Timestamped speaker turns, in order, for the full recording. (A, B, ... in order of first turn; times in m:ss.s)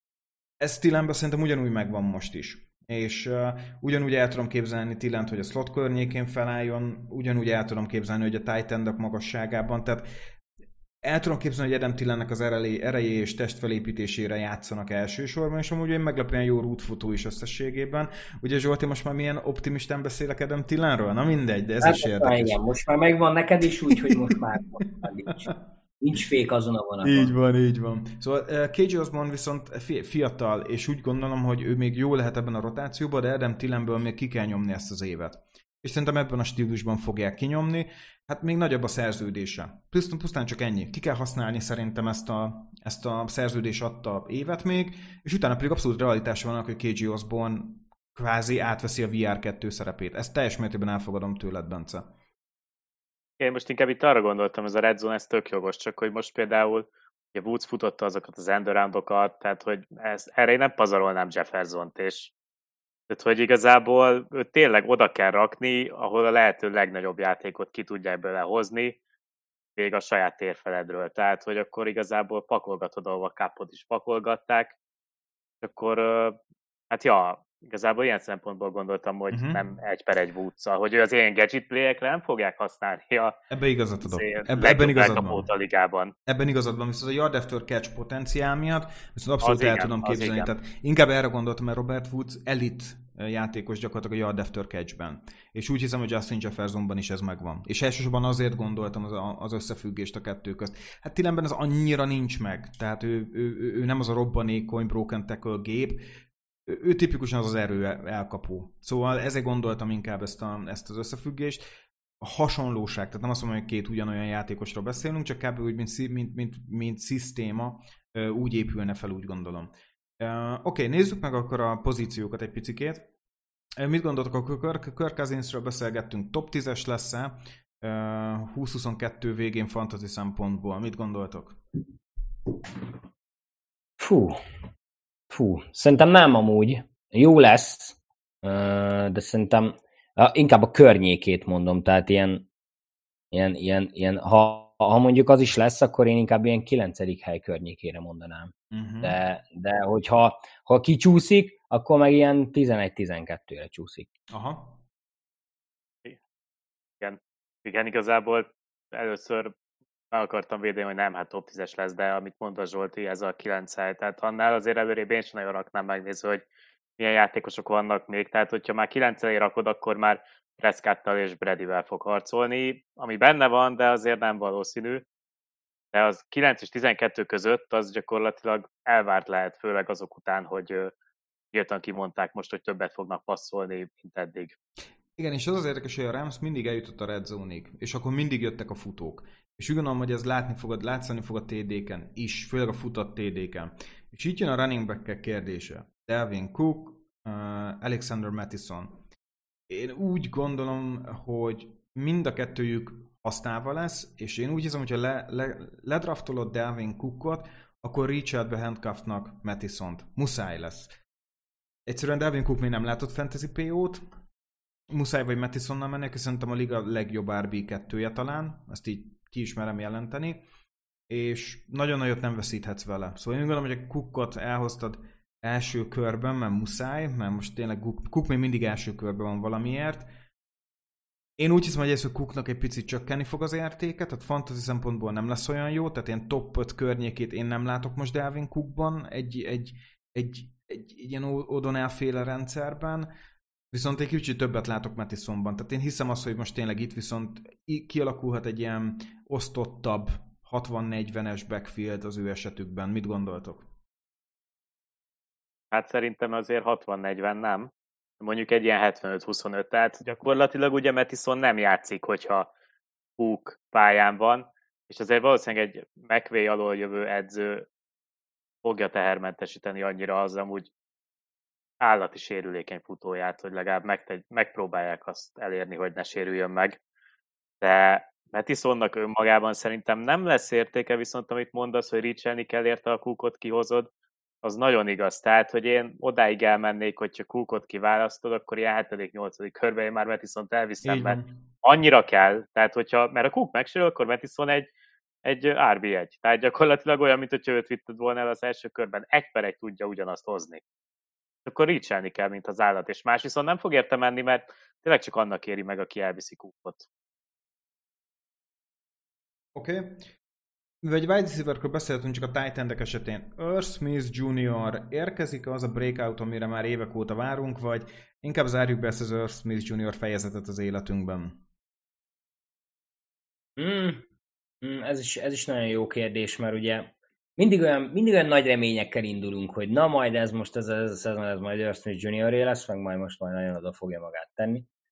0:00.6-0:10.1 A
0:11.0-0:22.6 A
0:21.8-0:27.3 B
0:23.9-0:24.2 A
0:27.0-0:52.1 A
0:53.4-1:02.3 C
1:03.1-1:09.0 C
1:09.8-1:14.8 C
1:15.6-1:16.4 C
1:16.9-1:23.4 C
1:19.3-1:19.6 A
1:23.5-1:25.5 A
1:24.0-1:26.1 C
1:26.3-1:46.0 A
1:29.4-1:30.5 C
1:46.6-1:51.6 A
1:52.2-2:03.1 A
2:03.8-2:11.6 A
2:14.0-2:14.4 B
2:15.3-2:22.5 B
2:23.3-2:34.1 B
2:28.7-2:29.2 A
2:34.3-2:34.8 A
2:37.0-2:39.6 C
2:40.1-2:46.4 C
2:47.0-2:55.0 C
2:55.9-3:00.9 C
3:01.5-3:04.6 C
3:05.2-3:19.0 A
3:19.7-3:30.9 A
3:31.9-3:34.0 A
3:34.9-3:40.4 A
3:41.1-3:50.1 A
3:51.4-4:03.1 A
4:03.7-4:13.7 A
4:15.7-4:22.5 C
4:23.2-4:27.6 C
4:28.6-4:30.7 C
4:31.8-4:36.8 C
4:37.6-4:43.9 C
4:44.4-4:54.7 C
4:50.8-4:51.5 A
4:55.2-5:00.6 C
5:01.4-5:06.9 C
5:09.6-5:10.0 A
5:10.8-5:21.4 A
5:23.6-5:24.1 B
5:24.6-5:34.7 B